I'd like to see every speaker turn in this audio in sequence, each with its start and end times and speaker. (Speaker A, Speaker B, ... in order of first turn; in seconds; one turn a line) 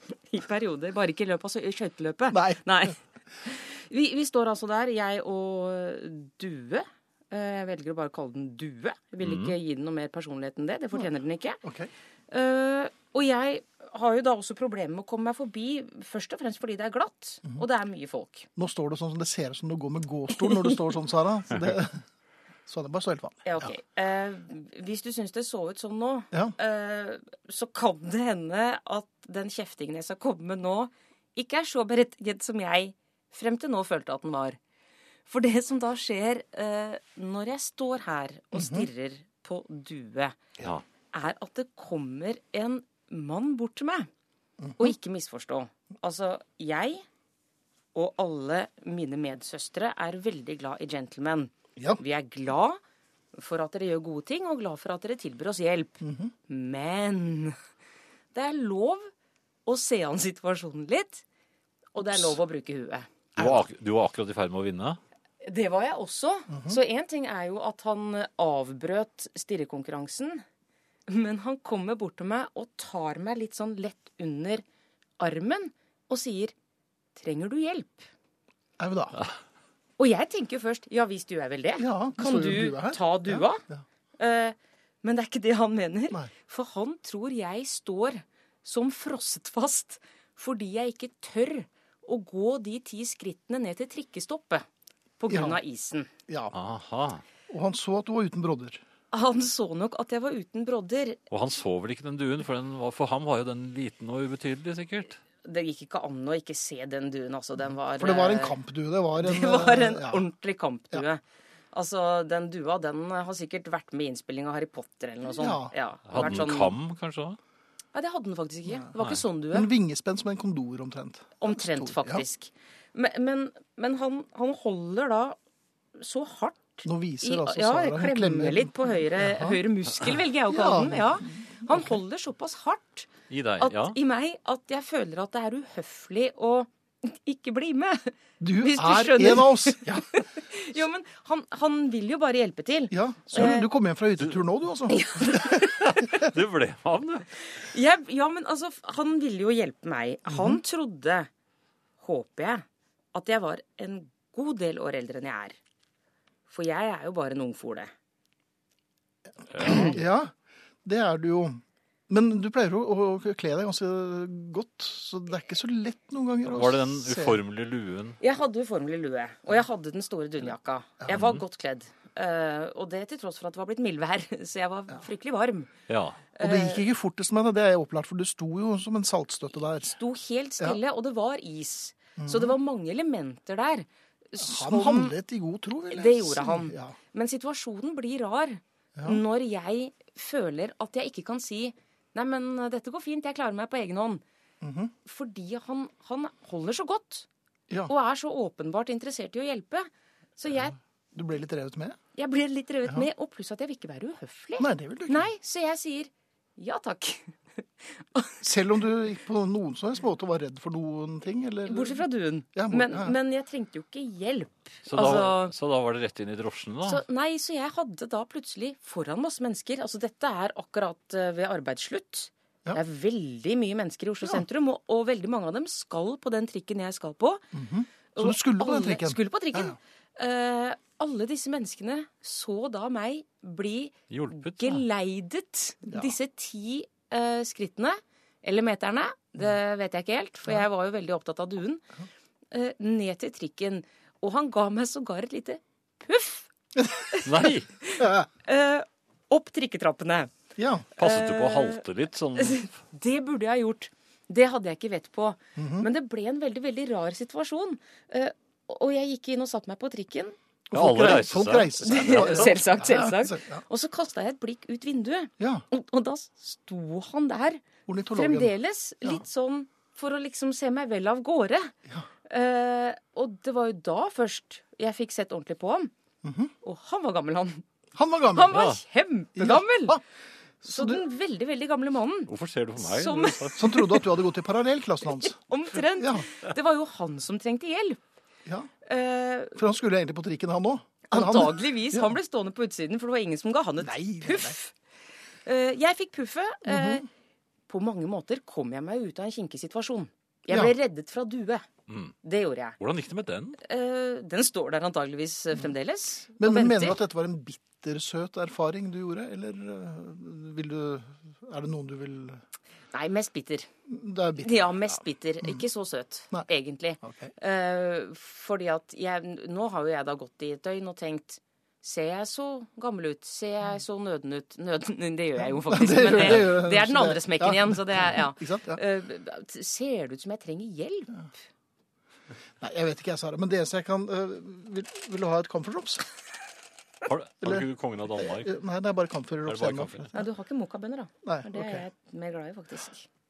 Speaker A: 0.3-11.6
Speaker B: 2.3-2.9
Speaker C: 9.2-9.6
Speaker B: 11.6-11.9
Speaker A: 12.3-18.5
Speaker B: 18.6-22.0
Speaker A: 20.4-20.8
Speaker B: 22.7-23.7
Speaker A: 23.4-34.6
Speaker A: 35.3-40.4
Speaker B: 38.5-38.9
Speaker A: 41.1-44.1
Speaker B: 44.6-44.9
Speaker A: 44.8-47.0
Speaker A: 48.0-52.8
Speaker A: 53.3-57.6
Speaker B: 56.0-56.3
Speaker A: 58.3-59.1
Speaker A: 59.7-61.2
Speaker A: 62.0-63.1
Speaker C: 63.4-65.0
Speaker A: 65.4-70.4
Speaker B: 66.5-66.8
Speaker A: 71.1-74.6
Speaker A: 75.2-76.5
Speaker A: 77.2-78.1
Speaker B: 78.8-79.2
Speaker A: 80.0-83.6
Speaker B: 81.8-83.8
Speaker A: 84.2-94.7
Speaker A: 95.2-96.1
Speaker B: 95.3-95.6
Speaker B: 96.3-96.5
Speaker C: 96.5-97.2
Speaker B: 97.5-98.8
Speaker A: 99.1-101.2
Speaker C: 101.3-105.2
Speaker A: 105.4-108.6
Speaker B: 108.0-110.2
Speaker A: 109.2-111.2
Speaker A: 111.7-116.8
Speaker B: 115.3-115.7
Speaker C: 116.1-117.4
Speaker A: 117.9-119.7
Speaker B: 119.5-122.2
Speaker A: 121.4-125.4
Speaker A: 126.0-143.7
Speaker B: 126.8-129.6
Speaker B: 130.5-132.0
Speaker C: 133.3-134.0
Speaker B: 138.4-140.2
Speaker B: 142.9-145.5
Speaker A: 144.9-146.2
Speaker C: 145.8-147.3
Speaker A: 147.4-151.3
Speaker B: 150.3-150.6
Speaker A: 152.0-155.6
Speaker A: 156.5-157.9
Speaker C: 159.5-160.0
Speaker B: 159.6-160.3
Speaker A: 159.7-160.0
Speaker B: 160.8-167.4
Speaker C: 166.5-168.2
Speaker A: 168.2-175.7
Speaker B: 171.0-171.3
Speaker C: 171.1-171.4
Speaker C: 175.9-176.2
Speaker A: 176.3-176.8
Speaker B: 176.4-179.9
Speaker A: 179.8-185.2
Speaker B: 182.2-182.5
Speaker B: 184.4-187.0
Speaker A: 185.9-194.2
Speaker B: 194.6-194.9
Speaker A: 195.1-197.3
Speaker A: 197.9-200.8
Speaker B: 201.1-202.0
Speaker A: 202.2-208.4
Speaker B: 204.6-205.3
Speaker B: 208.4-212.0
Speaker A: 211.7-215.5
Speaker B: 212.5-213.2
Speaker C: 214.9-217.0
Speaker B: 215.0-215.2
Speaker A: 216.8-227.5
Speaker B: 227.5-229.8
Speaker A: 228.1-241.8
Speaker C: 234.1-234.8
Speaker B: 235.9-236.1
Speaker A: 242.5-246.5
Speaker B: 246.8-247.2
Speaker A: 247.1-250.3
Speaker C: 247.2-247.7
Speaker B: 248.0-248.3
Speaker B: 250.6-250.9
Speaker A: 251.0-251.8
Speaker C: 251.0-252.7
Speaker A: 252.4-260.4
Speaker B: 255.6-255.9
Speaker B: 260.7-263.6
Speaker C: 260.7-262.6
Speaker A: 261.8-271.8
Speaker B: 265.4-265.6
Speaker B: 267.9-269.2
Speaker A: 272.3-275.9
Speaker B: 276.2-276.5
Speaker A: 276.6-277.6
Speaker B: 278.0-278.5
Speaker A: 278.3-280.0
Speaker C: 278.5-278.8
Speaker B: 279.4-280.0
Speaker B: 280.6-281.0
Speaker A: 280.6-284.1
Speaker C: 282.3-283.7
Speaker B: 283.6-285.4
Speaker A: 285.1-288.0
Speaker B: 286.0-286.3
Speaker A: 288.9-289.6
Speaker B: 289.6-292.1
Speaker A: 291.1-294.7
Speaker B: 293.8-294.6
Speaker A: 295.4-297.1
Speaker B: 296.7-297.0
Speaker A: 297.7-301.7
Speaker C: 301.9-302.1
Speaker A: 302.2-302.8
Speaker C: 302.8-303.6
Speaker A: 303.6-307.0
Speaker B: 306.4-312.4
Speaker A: 312.9-313.7
Speaker B: 313.9-314.7
Speaker A: 314.4-331.2
Speaker B: 317.0-317.3
Speaker B: 325.4-328.8
Speaker B: 332.6-336.1
Speaker C: 337.1-338.5
Speaker B: 337.4-340.2
Speaker C: 339.5-340.1
Speaker A: 340.1-343.1
Speaker B: 341.2-341.9